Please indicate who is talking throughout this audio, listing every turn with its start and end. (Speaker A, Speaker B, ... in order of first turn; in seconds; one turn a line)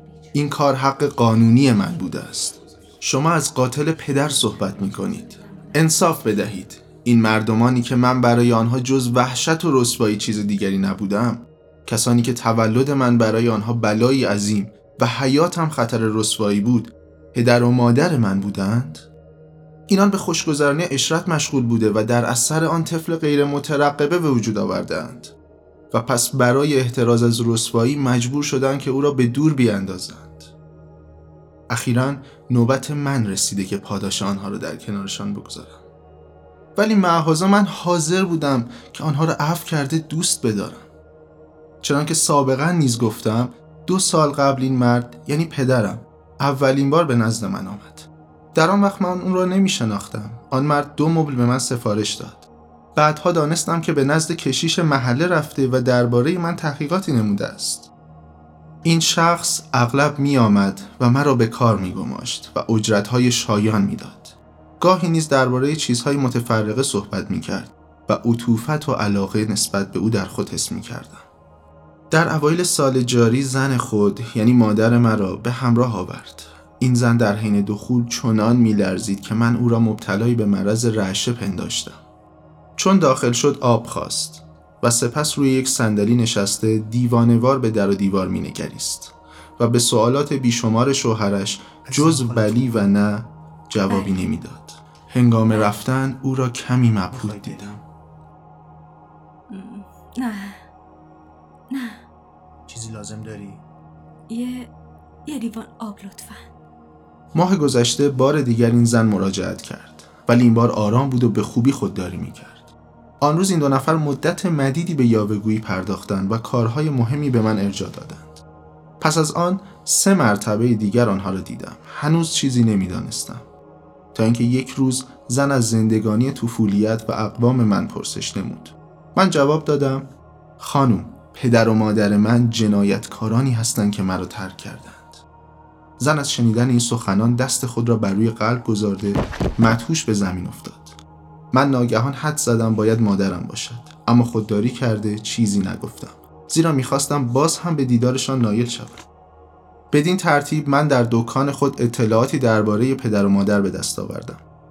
Speaker A: 0.3-19.1
Speaker A: 19.9-25.3
Speaker A: 25.9-30.5
Speaker A: 31.7-35.8
Speaker A: 36.8-40.9
Speaker A: 41.8-57.9
Speaker A: 58.9-71.2
Speaker A: 72.1-82.0
Speaker A: 82.8-97.8
Speaker B: 91.8-92.8
Speaker C: 93.9-94.2
Speaker C: 95.5-95.8
Speaker B: 97.1-97.7
Speaker C: 99.5-100.6
Speaker C: 101.7-102.0
Speaker B: 102.7-103.6
Speaker C: 104.3-104.7
Speaker C: 105.3-106.4
Speaker A: 107.3-118.4
Speaker A: 119.0-123.4
Speaker A: 124.2-135.2
Speaker A: 136.0-141.0
Speaker A: 141.5-149.0
Speaker A: 149.9-154.4